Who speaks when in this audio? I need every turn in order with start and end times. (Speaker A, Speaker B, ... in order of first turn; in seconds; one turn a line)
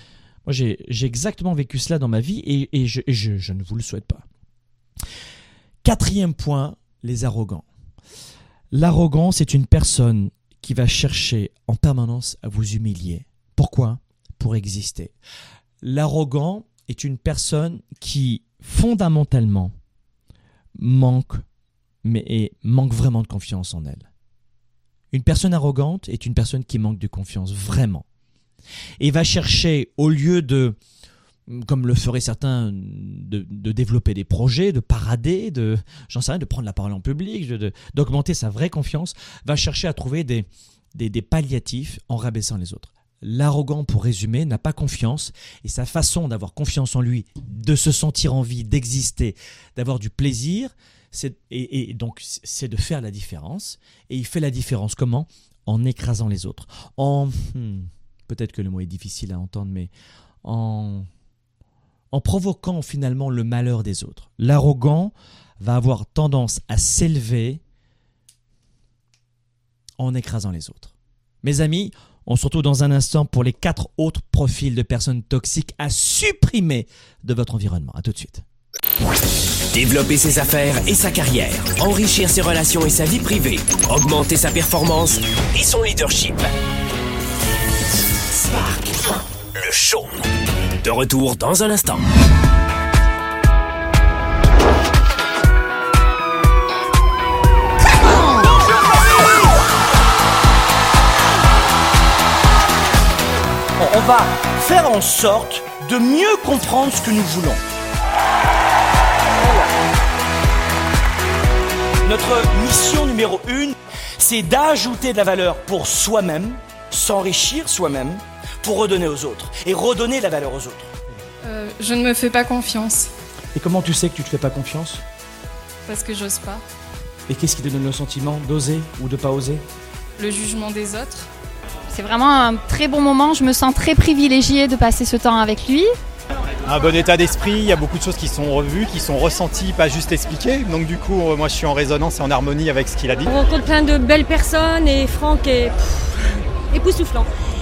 Speaker A: 0.5-4.2
Speaker A: 5.8-7.7
Speaker A: 8.7-15.1
Speaker A: 15.8-19.7
Speaker A: 20.8-21.4
Speaker A: 22.0-24.1
Speaker A: 25.1-28.0
Speaker A: 29.0-30.8
Speaker A: 31.5-59.9
Speaker A: 60.4-61.1
Speaker A: 62.1-67.6
Speaker A: 70.0-78.4
Speaker B: 79.7-86.5
Speaker B: 88.3-90.3
Speaker B: 90.8-92.1
Speaker A: 103.8-107.6
Speaker A: 109.4-109.7
Speaker A: 112.0-120.9
Speaker C: 121.4-123.1
Speaker A: 123.5-125.0
Speaker C: 125.8-126.6
Speaker A: 127.3-129.6
Speaker C: 130.2-131.3
Speaker D: 131.9-135.9
Speaker E: 136.7-143.3
Speaker F: 143.2-146.0
Speaker F: 146.7-147.3